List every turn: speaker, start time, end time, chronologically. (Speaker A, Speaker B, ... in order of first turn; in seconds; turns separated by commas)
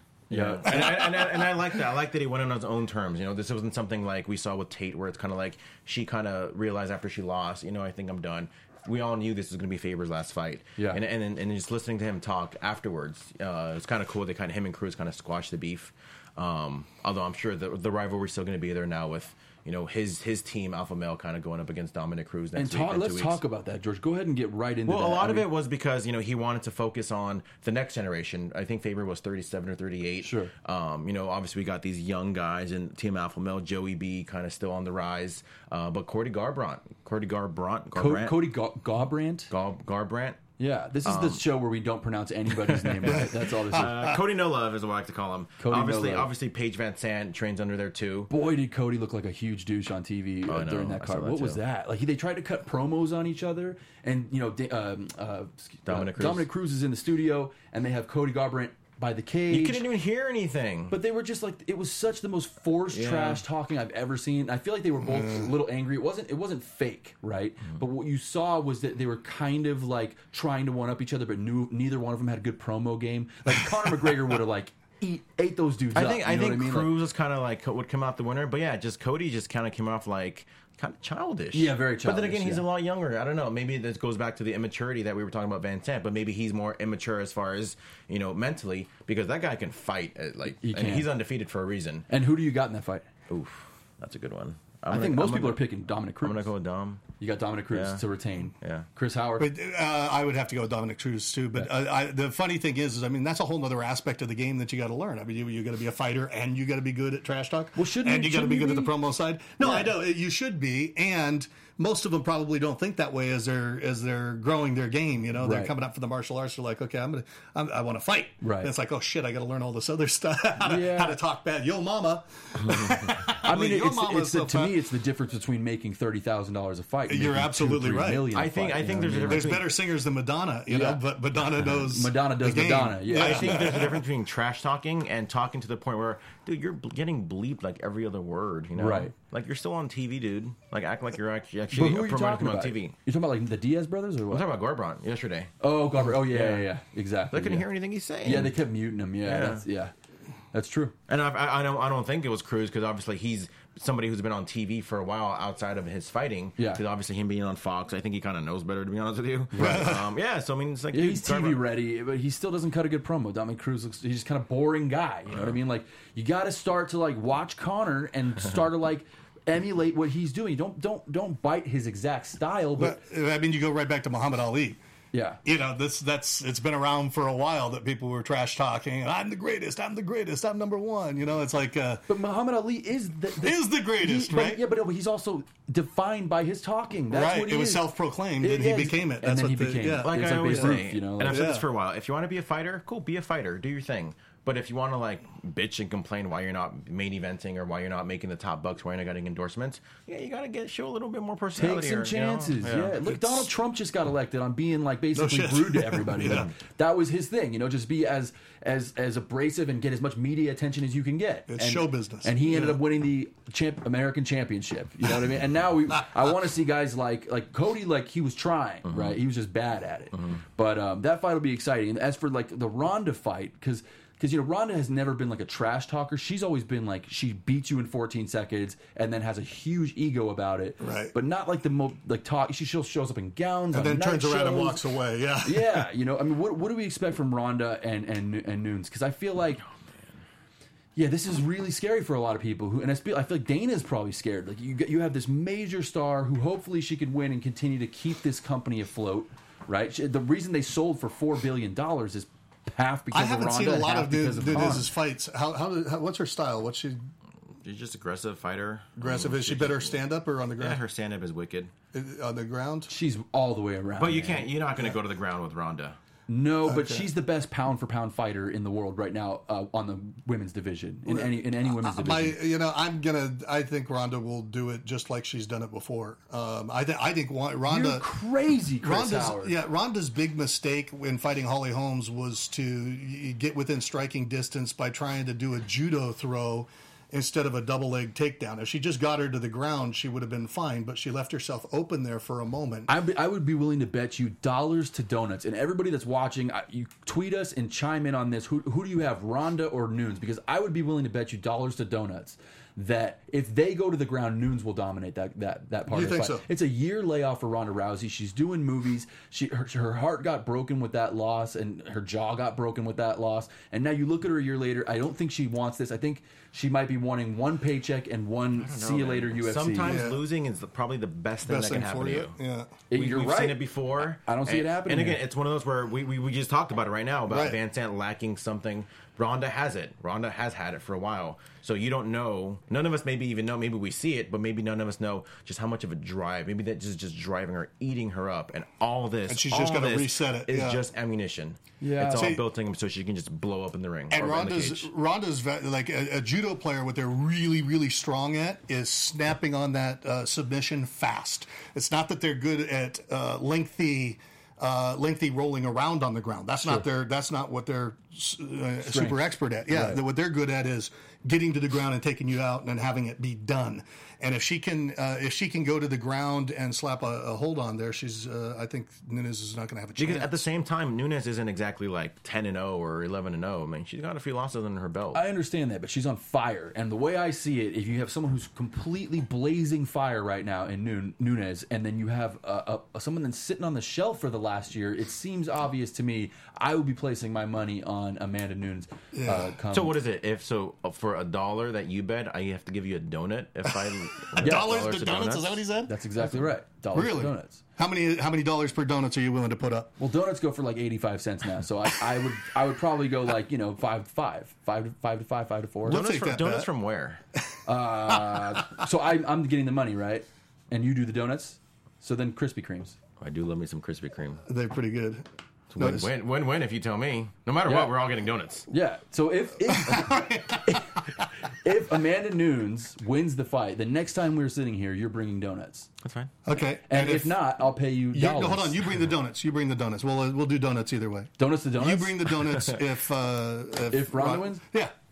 Speaker A: 0.3-23.4, Speaker B: 0.3-0.8, Speaker C: 0.7-1.5, Speaker B: 22.6-25.5, Speaker A: 24.9-38.5, Speaker B: 30.2-30.5, Speaker B: 37.9-39.5, Speaker A: 39.5-40.4, Speaker B: 40.6-44.1, Speaker A: 41.0-41.4, Speaker A: 42.8-48.3, Speaker C: 43.8-44.0, Speaker B: 45.6-46.3, Speaker B: 48.3-59.8, Speaker A: 50.5-51.6, Speaker A: 55.9-56.5, Speaker A: 59.5-60.9, Speaker B: 60.9-76.9, Speaker A: 62.9-63.4, Speaker C: 65.2-65.4, Speaker A: 75.9-92.1, Speaker B: 81.5-82.7, Speaker B: 90.6-91.1, Speaker B: 92.1-93.1, Speaker A: 93.3-95.6, Speaker B: 94.9-96.5, Speaker A: 96.2-97.0, Speaker B: 97.2-99.5, Speaker A: 97.7-98.0, Speaker A: 98.6-98.9, Speaker C: 99.4-124.8, Speaker B: 107.8-108.9, Speaker B: 115.4-115.7, Speaker B: 118.4-118.7, Speaker B: 120.6-121.2, Speaker B: 123.4-129.6, Speaker C: 127.1-128.3, Speaker A: 128.3-129.7, Speaker C: 129.3-134.0, Speaker B: 130.7-131.0, Speaker B: 131.7-133.8, Speaker A: 133.1-142.9, Speaker B: 138.8-139.1, Speaker B: 141.7-144.4, Speaker A: 144.3-145.5, Speaker B: 145.6-147.7, Speaker A: 146.1-146.7, Speaker A: 147.3-148.5, Speaker B: 148.2-149.9, Speaker A: 149.2-149.6, Speaker B: 150.5-150.9, Speaker A: 151.1-161.6, Speaker B: 159.5-159.9, Speaker C: 159.6-160.1, Speaker B: 160.9-173.0, Speaker C: 172.8-174.8, Speaker B: 175.1-175.4, Speaker C: 175.4-182.0, Speaker B: 182.1-187.9, Speaker C: 183.4-184.6, Speaker C: 187.1-191.6, Speaker B: 188.4-191.5, Speaker A: 190.0-203.0, Speaker B: 201.6-234.8, Speaker C: 205.1-206.5, Speaker C: 211.5-212.8, Speaker A: 218.8-219.2, Speaker C: 230.8-231.1, Speaker C: 233.7-235.8, Speaker B: 235.4-239.6, Speaker B: 240.9-254.9, Speaker C: 253.1-257.0, Speaker A: 257.6-260.0, Speaker C: 259.0-260.8, Speaker A: 260.6-261.7, Speaker C: 261.9-262.9, Speaker B: 262.9-264.5, Speaker A: 264.0-266.0, Speaker B: 266.3-272.4, Speaker C: 266.6-267.1, Speaker C: 271.1-278.0, Speaker B: 277.7-279.5, Speaker C: 278.8-292.9, Speaker B: 292.9-320.0, Speaker C: 305.9-306.4, Speaker A: 318.5-322.3, Speaker C: 319.8-320.2, Speaker C: 321.4-322.8, Speaker B: 322.9-323.6, Speaker A: 322.9-344.9, Speaker B: 324.2-325.2, Speaker C: 327.3-327.6, Speaker C: 339.3-340.8, Speaker B: 341.8-342.3, Speaker C: 342.1-342.4, Speaker C: 344.1-370.4, Speaker B: 358.8-360.0, Speaker A: 370.0-375.2, Speaker B: 375.1-390.0, Speaker C: 389.1-389.5, Speaker A: 389.7-395.6, Speaker C: 394.3-395.9, Speaker B: 394.4-394.7, Speaker B: 395.9-397.6, Speaker C: 396.9-399.9, Speaker B: 400.0-406.0, Speaker C: 405.8-406.7, Speaker A: 405.9-407.2, Speaker B: 407.6-412.9, Speaker C: 408.1-408.4, Speaker A: 413.2-414.4, Speaker C: 414.5-415.2, Speaker A: 415.7-418.7, Speaker C: 415.8-416.1, Speaker B: 417.6-417.9, Speaker B: 418.7-425.9, Speaker C: 419.7-420.8, Speaker A: 426.0-426.3, Speaker C: 426.4-427.4, Speaker B: 426.9-428.8, Speaker C: 428.1-434.9, Speaker B: 431.4-432.4, Speaker B: 433.9-434.6